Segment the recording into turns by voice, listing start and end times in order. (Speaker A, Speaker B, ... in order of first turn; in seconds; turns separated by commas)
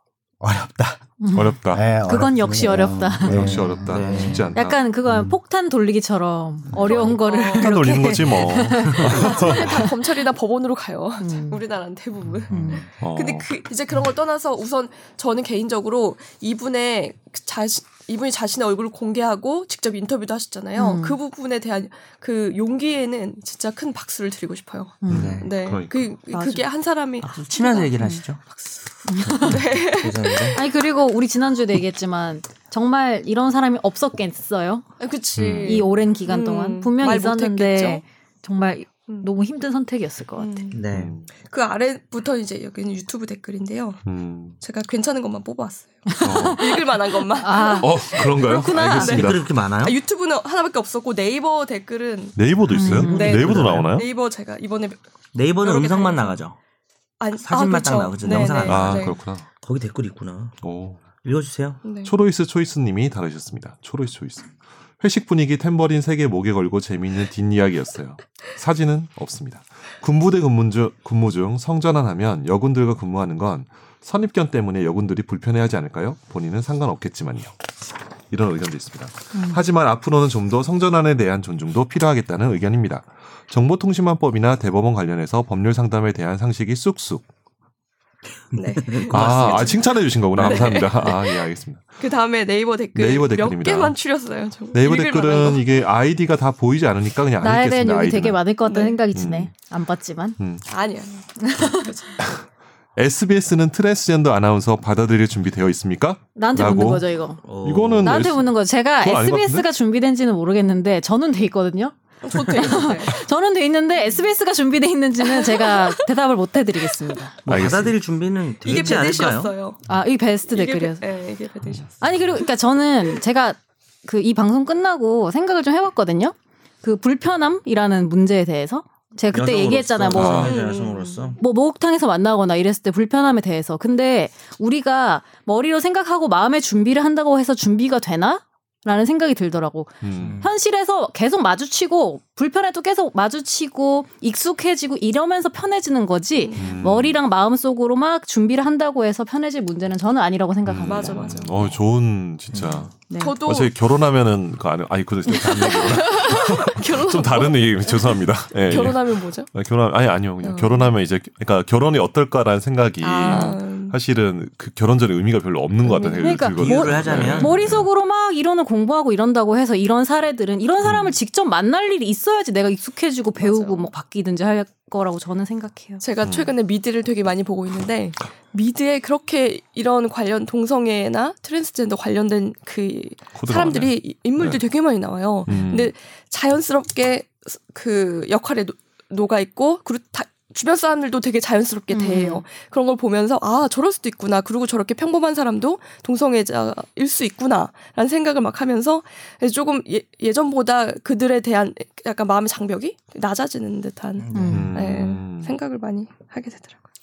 Speaker A: 0.4-4.5, Speaker B: 1.2-3.6, Speaker C: 1.3-1.8, Speaker C: 3.2-4.8, Speaker D: 3.5-4.5, Speaker B: 4.5-10.0, Speaker A: 5.1-5.3, Speaker E: 6.8-7.8, Speaker C: 7.5-9.9, Speaker D: 8.9-9.2, Speaker E: 9.0-30.6, Speaker B: 11.2-11.6, Speaker B: 12.5-12.8, Speaker C: 13.0-13.5, Speaker B: 20.8-21.2, Speaker B: 25.0-25.4, Speaker D: 25.1-25.5, Speaker C: 25.1-26.1, Speaker B: 26.3-26.7, Speaker D: 27.2-28.4, Speaker B: 29.1-29.6, Speaker D: 29.3-30.6, Speaker B: 30.5-35.0, Speaker E: 35.0-38.0, Speaker C: 35.4-35.9, Speaker B: 35.5-40.7, Speaker E: 40.4-40.8, Speaker D: 40.7-41.2, Speaker C: 40.9-41.3, Speaker E: 41.3-44.0, Speaker C: 44.1-44.6, Speaker E: 44.6-55.0, Speaker B: 46.1-49.2, Speaker C: 46.2-46.7, Speaker C: 47.8-49.5, Speaker D: 49.0-50.0, Speaker C: 52.4-54.1, Speaker B: 52.7-53.4, Speaker D: 52.9-53.9, Speaker D: 55.3-56.6, Speaker E: 55.6-56.4, Speaker E: 57.2-59.2, Speaker D: 57.5-60.6, Speaker C: 58.6-59.5, Speaker C: 60.6-61.0, Speaker D: 61.2-61.8, Speaker E: 61.8-62.1, Speaker C: 62.0-77.5, Speaker C: 78.3-87.2, Speaker B: 79.3-79.6, Speaker E: 88.5-91.4, Speaker D: 88.6-89.7, Speaker C: 89.1-92.0, Speaker D: 90.4-90.7, Speaker E: 92.0-95.6, Speaker C: 93.0-94.0, Speaker C: 94.7-98.4, Speaker B: 97.4-100.4, Speaker E: 98.6-99.0, Speaker C: 99.1-99.5, Speaker C: 100.4-100.7, Speaker E: 100.7-102.2, Speaker B: 101.4-102.1, Speaker C: 103.0-107.1, Speaker B: 106.4-107.4, Speaker D: 107.4-108.3, Speaker C: 107.6-109.7, Speaker B: 108.0-117.3, Speaker E: 112.2-113.2, Speaker E: 115.2-116.1, Speaker D: 117.5-119.5, Speaker C: 117.5-118.0, Speaker E: 118.6-119.8, Speaker B: 119.9-121.1, Speaker E: 120.5-122.0, Speaker B: 122.0-130.6, Speaker D: 129.3-131.4, Speaker C: 130.1-130.6, Speaker E: 130.4-131.4, Speaker B: 131.4-151.4, Speaker C: 140.0-140.4, Speaker D: 140.1-140.5, Speaker E: 146.4-146.8, Speaker C: 146.6-147.2, Speaker C: 150.7-167.9, Speaker E: 150.8-151.8, Speaker D: 152.5-152.8, Speaker B: 153.1-153.4, Speaker E: 153.2-153.7, Speaker E: 155.3-159.5, Speaker E: 160.4-160.9, Speaker E: 163.0-164.0, Speaker B: 163.2-163.6, Speaker E: 165.9-166.4, Speaker B: 165.9-176.1, Speaker D: 166.6-167.6, Speaker C: 170.8-171.2, Speaker E: 173.4-173.9, Speaker E: 176.0-206.8, Speaker C: 176.2-176.5, Speaker C: 183.3-184.6, Speaker C: 185.5-185.9, Speaker B: 191.9-192.4, Speaker D: 204.2-204.8, Speaker B: 204.3-204.7, Speaker C: 204.5-205.5